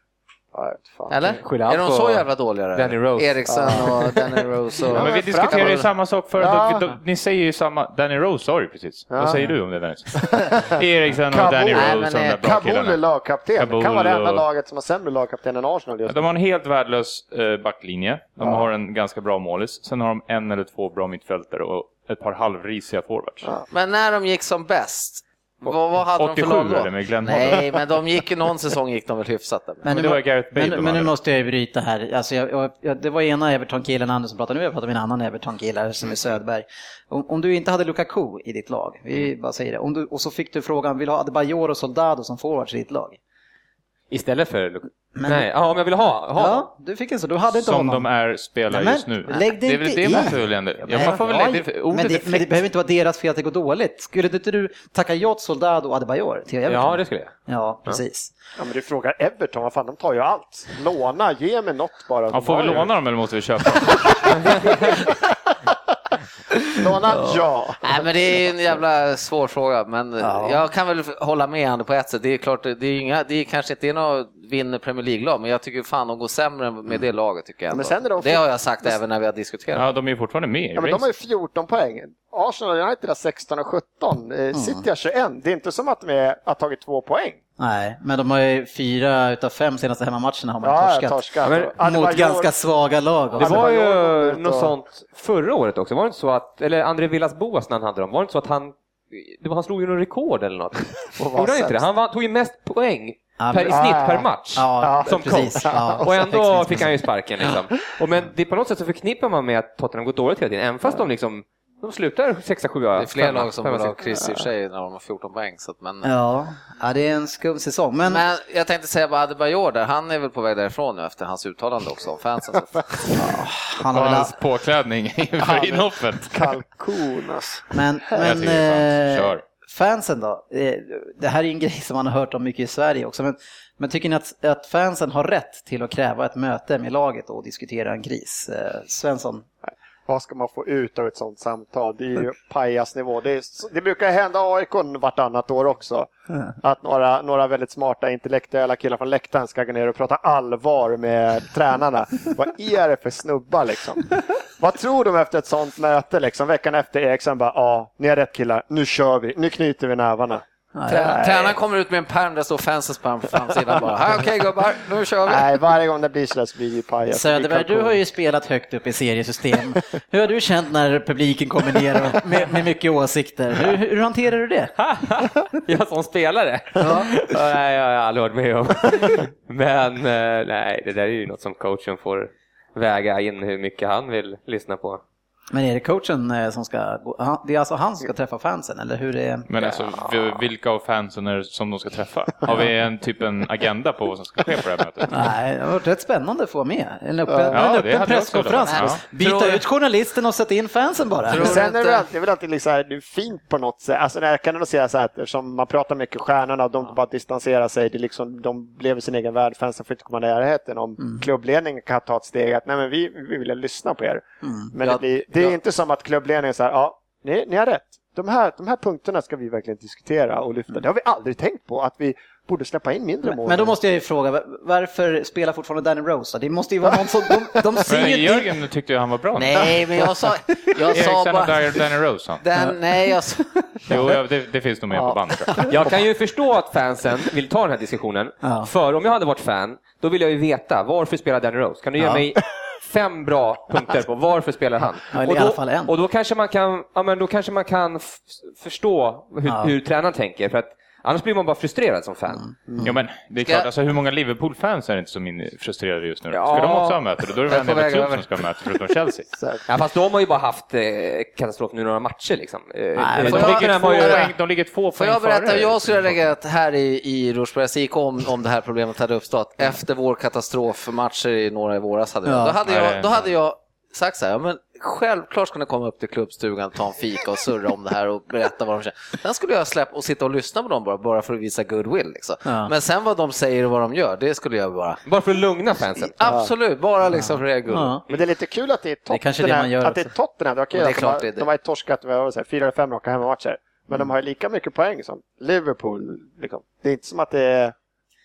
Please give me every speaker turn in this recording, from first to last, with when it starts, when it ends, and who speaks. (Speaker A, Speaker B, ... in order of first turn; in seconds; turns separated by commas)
Speaker A: 0.5-1.2, Speaker B: 1.1-5.9, Speaker C: 1.4-4.4, Speaker A: 3.5-4.0, Speaker D: 4.9-13.0, Speaker A: 4.9-5.8, Speaker A: 6.4-6.8, Speaker A: 9.1-9.4, Speaker A: 10.2-16.2, Speaker B: 11.7-12.4, Speaker D: 13.6-14.4, Speaker D: 16.1-23.5, Speaker B: 23.7-29.9, Speaker D: 26.1-27.8, Speaker E: 29.8-43.2, Speaker D: 29.9-31.1, Speaker C: 44.1-46.7, Speaker E: 45.1-45.5, Speaker E: 46.3-48.1, Speaker D: 47.5-52.5, Speaker E: 48.7-58.3, Speaker C: 56.7-57.3, Speaker A: 58.6-62.9, Speaker D: 62.3-64.5, Speaker A: 64.2-64.8, Speaker A: 66.8-68.5, Speaker B: 67.8-79.9, Speaker E: 70.2-70.6, Speaker A: 77.7-79.0, Speaker D: 79.7-81.0, Speaker A: 80.7-87.4, Speaker E: 84.5-84.8, Speaker E: 87.6-91.2, Speaker A: 90.6-92.5, Speaker C: 91.4-91.7, Speaker E: 91.8-93.7, Speaker C: 93.3-114.0, Speaker A: 93.4-94.7, Speaker A: 101.2-101.8, Speaker E: 103.4-104.0, Speaker A: 103.7-104.3, Speaker E: 104.5-106.0, Speaker A: 104.8-106.9, Speaker B: 113.0-116.1, Speaker E: 116.0-118.2, Speaker B: 118.0-123.1, Speaker E: 123.2-124.3, Speaker D: 123.9-126.4, Speaker A: 125.4-127.7, Speaker E: 127.7-139.5, Speaker D: 128.2-129.4, Speaker A: 139.7-160.4, Speaker E: 160.7-161.2, Speaker B: 160.9-165.5, Speaker A: 161.0-161.6, Speaker A: 165.2-168.0, Speaker E: 167.1-174.7, Speaker C: 174.8-185.0, Speaker E: 176.8-177.1, Speaker E: 185.5-189.5, Speaker D: 189.5-195.3, Speaker B: 189.6-190.4, Speaker E: 195.1-201.6, Speaker A: 197.3-197.6, Speaker D: 197.5-199.0, Speaker B: 198.7-199.6, Speaker B: 201.3-202.0, Speaker A: 201.3-223.8, Speaker E: 211.0-211.2, Speaker E: 214.4-214.7, Speaker B: 214.8-215.6, Speaker E: 223.2-228.5, Speaker D: 227.9-229.8, Speaker B: 229.4-234.0, Speaker D: 230.8-232.4, Speaker E: 232.6-234.0, Speaker D: 233.9-235.7, Speaker C: 235.7-252.4, Speaker E: 238.4-238.7, Speaker E: 242.0-242.2, Speaker E: 245.1-245.9, Speaker E: 249.4-249.7, Speaker E: 252.4-252.9, Speaker D: 252.8-259.3, Speaker B: 253.4-253.7, Speaker B: 256.3-258.3, Speaker C: 259.7-264.3, Speaker E: 263.0-263.7, Speaker D: 263.1-266.2, Speaker B: 264.0-264.3, Speaker B: 264.9-285.0, Speaker E: 272.2-272.5, Speaker D: 272.6-273.3, Speaker E: 282.4-282.7, Speaker C: 285.1-286.1, Speaker B: 286.0-288.0, Speaker A: 286.2-286.5, Speaker E: 287.1-288.0, Speaker A: 288.1-297.7, Speaker E: 289.1-290.1, Speaker B: 290.7-291.5